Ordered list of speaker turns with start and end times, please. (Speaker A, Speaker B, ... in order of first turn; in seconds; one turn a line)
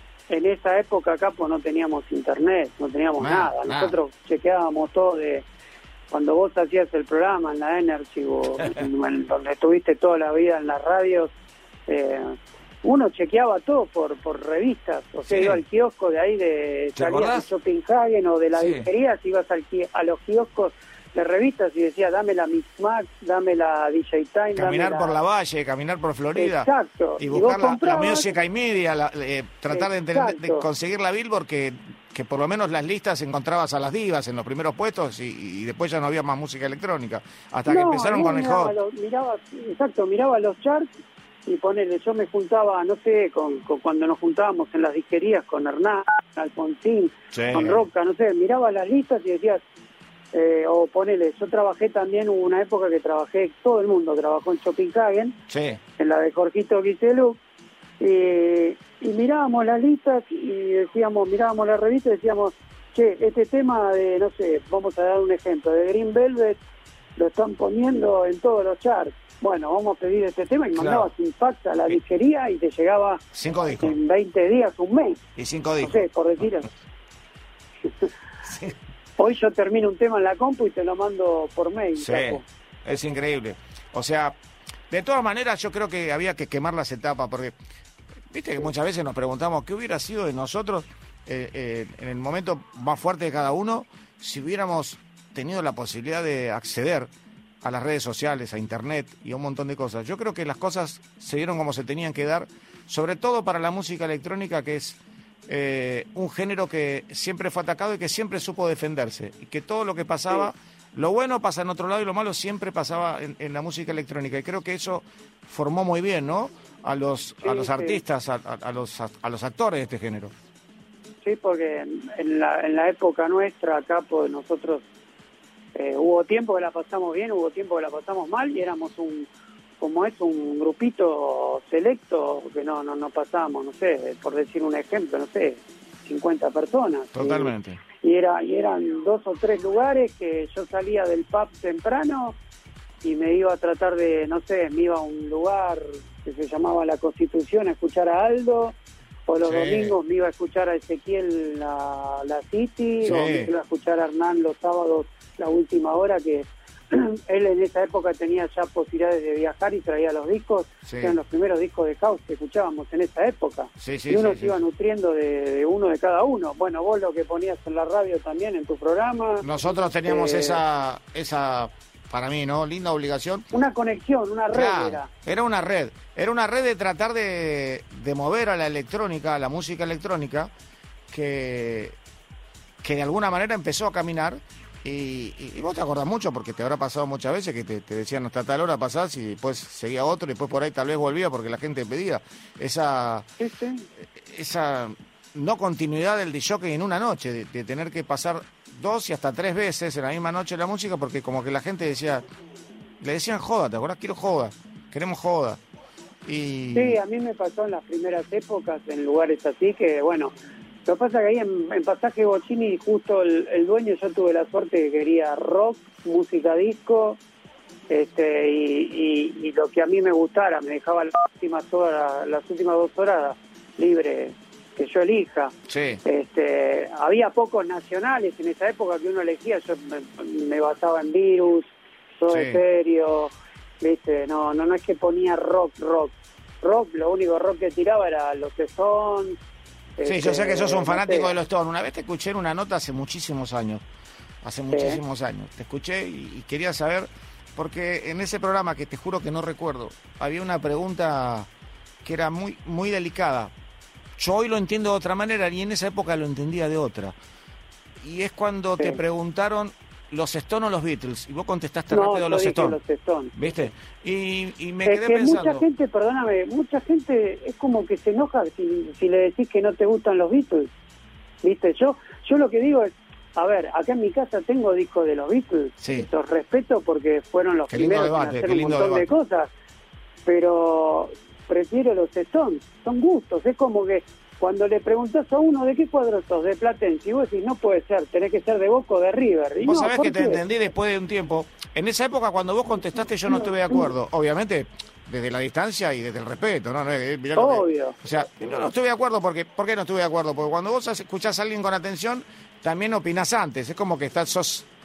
Speaker A: 0.3-5.4
Speaker B: 3.2-4.0
Speaker A: 6.1-11.3
Speaker A: 11.9-25.1
Speaker B: 15.2-15.6
Speaker B: 16.9-17.5
Speaker B: 18.5-18.9
Speaker B: 24.6-38.8
Speaker A: 26.3-28.3
Speaker A: 29.7-30.6
Speaker A: 37.7-40.9
Speaker A: 41.5-49.6
Speaker B: 47.3-47.8
Speaker A: 50.3-55.3
Speaker B: 55.5-55.8
Speaker A: 56.0-57.4
Speaker A: 58.0-66.6
Speaker A: 67.2-73.2
Speaker B: 70.7-71.1
Speaker B: 73.3-74.0
Speaker A: 73.8-75.2
Speaker B: 75.4-76.5
Speaker A: 75.8-76.7
Speaker B: 78.5-78.7
Speaker A: 79.2-82.4
Speaker B: 82.0-84.3
Speaker B: 84.9-87.5
Speaker B: 88.3-97.1
Speaker B: 97.6-120.3
Speaker A: 117.4-118.0
Speaker A: 121.2-124.8
Speaker A: 125.7-129.3
Speaker A: 129.8-142.3
Speaker B: 137.1-137.8
Speaker A: 143.0-148.8
Speaker A: 149.3-170.6
Speaker B: 149.4-149.9
Speaker B: 153.0-153.5
Speaker B: 160.8-161.2
Speaker B: 163.8-164.6
Speaker B: 169.4-173.5
Speaker A: 173.5-175.1
Speaker B: 174.5-180.5
Speaker B: 181.1-181.9
Speaker B: 182.8-193.3
Speaker A: 193.4-193.8
Speaker B: 194.2-202.2
Speaker B: 203.0-205.6
Speaker B: 206.2-207.0
Speaker A: 206.7-210.3
Speaker A: 210.8-217.2
Speaker A: 217.9-225.5
Speaker B: 225.7-226.0
Speaker A: 226.0-239.4
Speaker B: 232.3-232.6
Speaker A: 240.0-241.3
Speaker B: 240.0-243.8
Speaker B: 244.4-251.5
Speaker A: 244.7-245.0
Speaker B: 252.0-253.5
Speaker B: 254.2-257.1
Speaker B: 258.0-262.8
Speaker A: 261.9-263.3
Speaker B: 263.3-265.6
Speaker A: 264.8-270.7
Speaker A: 271.4-279.5
Speaker B: 275.8-276.1
Speaker B: 277.7-279.1
Speaker A: 280.2-290.4
Speaker B: 289.6-304.7
Speaker A: 297.4-297.9